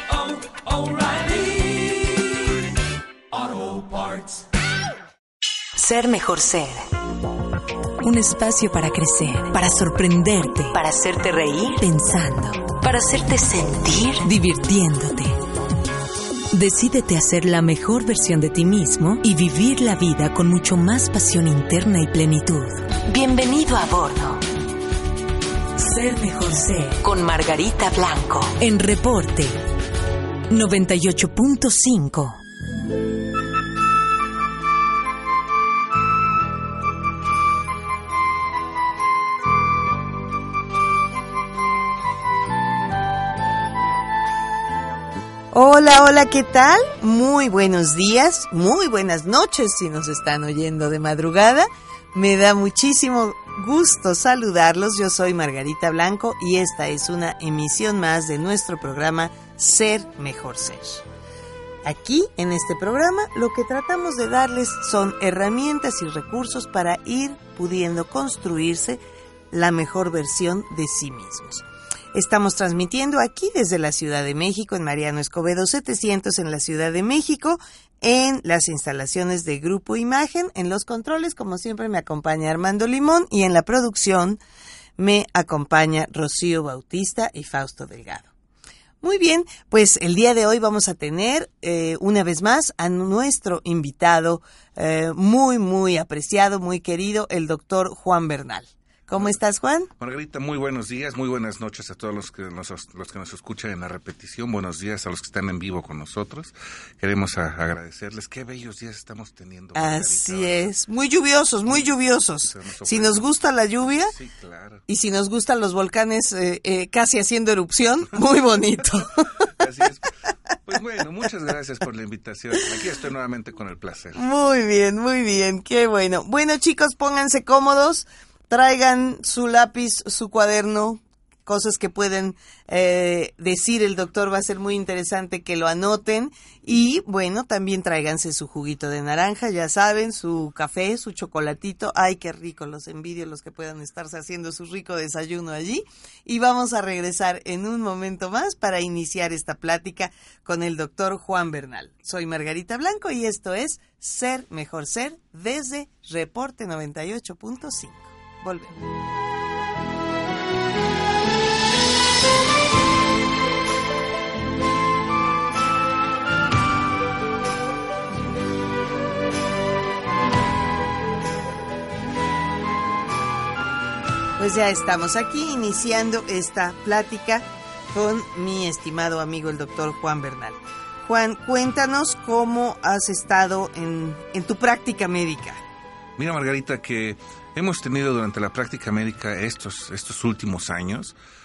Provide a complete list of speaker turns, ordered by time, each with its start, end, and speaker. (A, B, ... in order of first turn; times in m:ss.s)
0:00.7-0:01.8 A
0:03.3-0:04.3 A
0:05.8-0:06.8 B
0:08.0-0:15.4 B
0:16.5-0:24.4 B
0:25.8-0:29.6 B
0:30.5-0:32.4 B
0:45.5-1:01.0 C
1:01.8-1:09.0 C
1:09.5-1:24.4 C
1:25.0-1:28.3 C
1:29.0-1:39.9 C
1:40.0-1:50.7 D
1:49.8-1:54.2 C
1:51.7-1:51.9 D
1:52.4-1:53.3 D
1:54.1-1:54.8 D
1:54.9-1:59.5 C
1:59.6-2:00.1 D
2:00.6-2:04.2 D
2:04.2-2:38.8 C
2:54.4-3:05.6 C
3:06.2-3:11.2 D